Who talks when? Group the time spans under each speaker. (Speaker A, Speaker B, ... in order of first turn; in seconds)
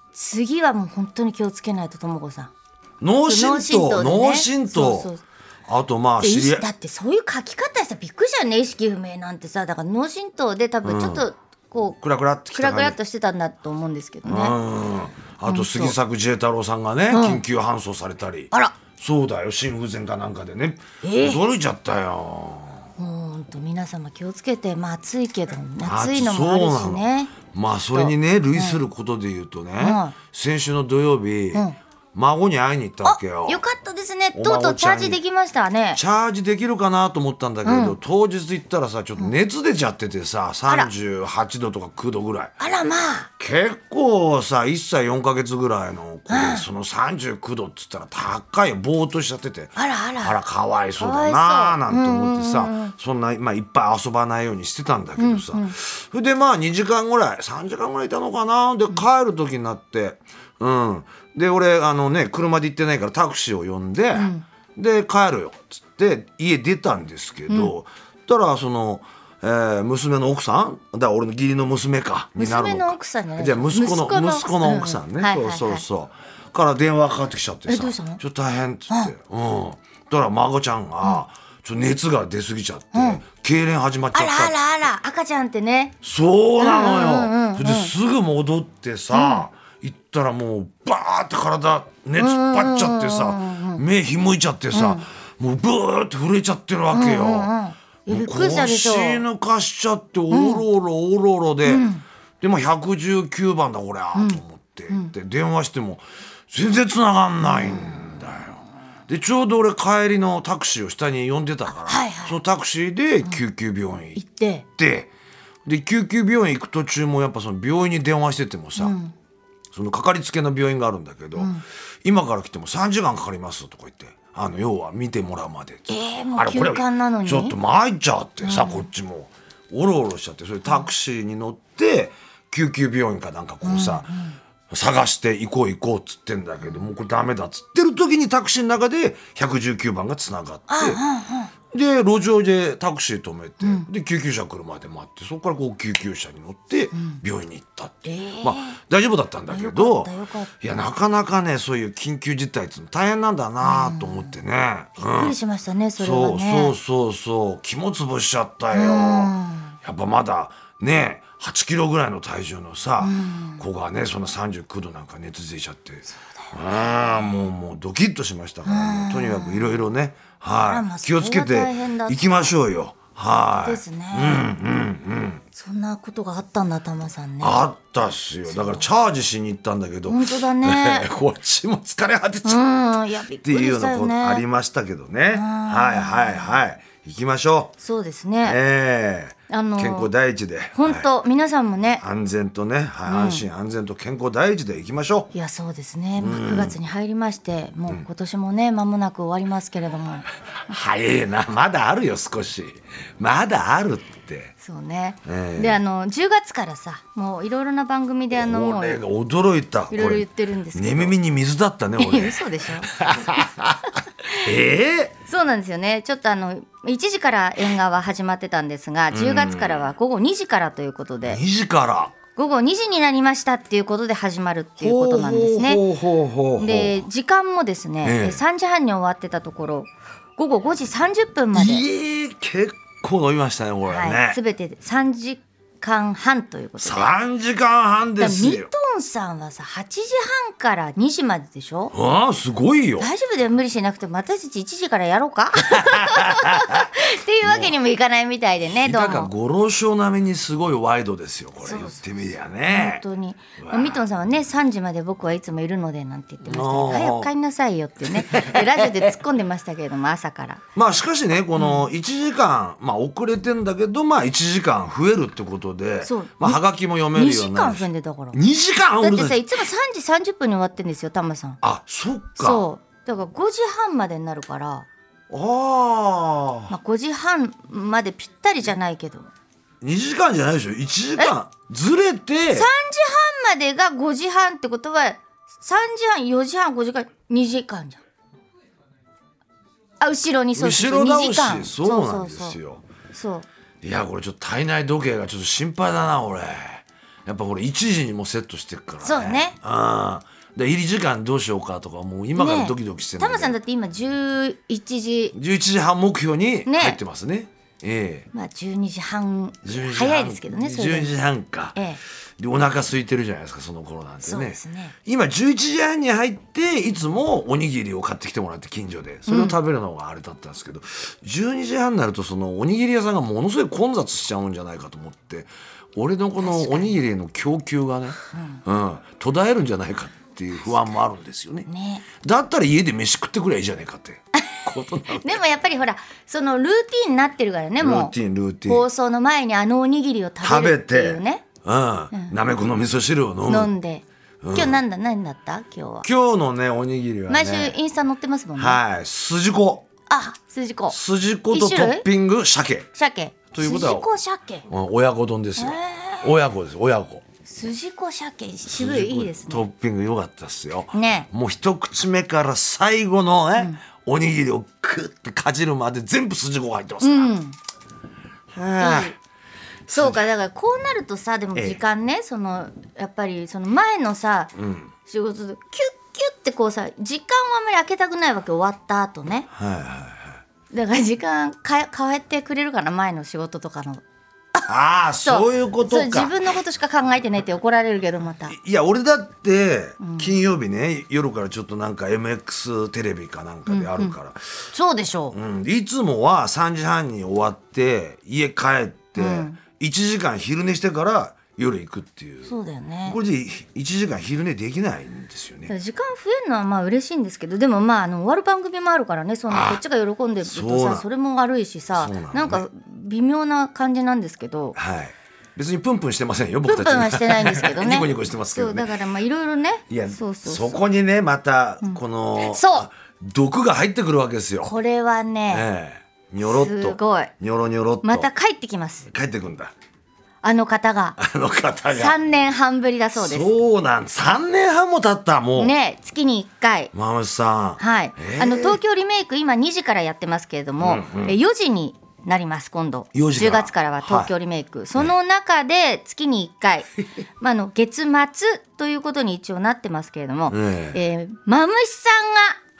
Speaker A: 0.1-2.5, 3.2-5.2, 6.2-12.0, 12.5-14.6, 15.4-15.9, 17.1-17.4, 21.0-21.4, 23.0-27.4, 27.9-28.8, 29.8-30.1, 31.5-31.8, 33.0-36.0, 37.6-38.0, 42.6-43.3, 46.3-46.7, 49.8-50.4, 51.0-52.9, 55.2-55.7, 64.1-64.4, 67.5-67.7, 72.3-75.8, 77.7-78.2, 82.9-83.2, 84.1-85.9, 86.6-87.9, 89.1-89.5, 92.2-93.8, 94.7-95.0, 96.9-99.2, 100.3-100.6, 101.6-102.0, 104.1-105.1, 107.4-108.2, 111.8-112.4, 114.2-114.6, 118.8-119.1, 121.3-121.6, 125.9-127.6, 128.4-128.9, 133.6-134.4, 140.7-141.5, 143.6-143.9, 146.9-147.2, 148.0-148.8, 149.5-150.5, 153.6-154.3, 155.0-156.8, 158.7-159.7, 163.0-163.6, 166.1-166.5, 168.6-169.8, 170.5-172.5, 173.5-174.5, 175.5-177.7, 178.4-178.9, 180.1-181.1, 182.4-184.4, 185.3-186.6, 187.8-188.6, 189.5-190.1, 190.7-192.0, 193.1-193.5, 195.3-200.3, 204.6-209.0, 209.9-211.1, 212.0-212.9, 215.3-221.4, 222.3-225.8, 226.6-231.8, 233.8-237.1, 238.2-241.9, 243.0-249.3, 251.6-260.6, 261.6-261.9, 266.0-266.6, 267.1-268.4, 269.0-271.6, 272.4-274.9, 276.7-279.3, 282.5-288.0, 290.0-292.6, 293.1-293.5, 299.0-299.5, 302.3-305.3, 306.6-307.0, 308.3-311.2, 311.7-312.0, 314.2-314.9, 319.3-319.6, 326.4-327.0, 328.3-328.6, 331.7-332.0, 334.3-338.1, 338.6-341.4, 343.5-346.1, 347.3-348.8, 350.1-351.0, 351.5-352.1, 352.9-354.7, 355.6-356.3, 357.4-359.6, 360.9-361.3, 367.0-367.6, 368.8-369.1, 369.9-374.5, 375.1-379.5, 380.7-384.0, 385.2-388.5, 390.0-390.3, 393.7-394.1, 394.7-395.4, 399.1-399.6, 402.4-403.2, 405.7-414.8, 416.6-420.8, 421.8-422.9, 424.6-425.6, 426.4-427.3, 428.0-429.1, 430.4-431.2, 431.9-433.5, 435.6-436.9, 437.8-452.6
Speaker B: 3.0-5.1, 5.7-6.7, 10.8-11.2, 12.0-12.9, 14.2-22.9, 25.8-33.6, 34.3-35.2, 35.9-42.5, 43.4-84.6, 86.0-97.5, 98.1-101.9, 102.4-114.2, 114.8-115.1, 115.7-119.0, 119.7-134.1, 134.7-141.0, 141.7-155.4, 156.0-175.4, 177.4-182.6, 183.4-187.7, 188.4-191.1, 192.0-195.3, 196.2-196.8, 200.7-204.5, 205.2-205.8, 208.3-213.8, 214.4-215.1, 219.1-219.9, 221.2-222.2, 224.8-227.0, 228.0-228.4, 231.5-234.4, 236.8-238.7, 241.9-243.1, 245.6-246.9, 247.4-247.7, 248.7-253.0, 253.6-254.0, 256.4-257.3, 258.1-259.0, 260.7-269.4, 271.6-272.6, 275.3-276.7, 279.8-282.7, 290.5-292.8, 293.8-303.6, 305.3-308.3, 309.6-311.8, 312.4-331.7, 332.2-335.4, 337.8-338.9, 340.4-343.7, 344.4-344.8, 346.0-347.8, 348.6-349.9, 350.9-352.9, 353.5-354.1, 354.7-357.2, 358.6-367.3, 368.5-369.1, 369.9-370.2, 371.5-371.8, 374.6-374.9, 379.5-380.4, 384.7-386.3, 388.5-394.7, 395.3-402.5, 403.1-405.7, 409.5-409.8, 410.4-411.1, 411.9-412.6, 414.7-418.9, 419.9-424.7, 425.5-428.3, 429.1-429.7, 431.2-432.2, 433.1-435.7, 436.9-438.8, 440.8-441.4, 443.1-444.3, 450.5-451.0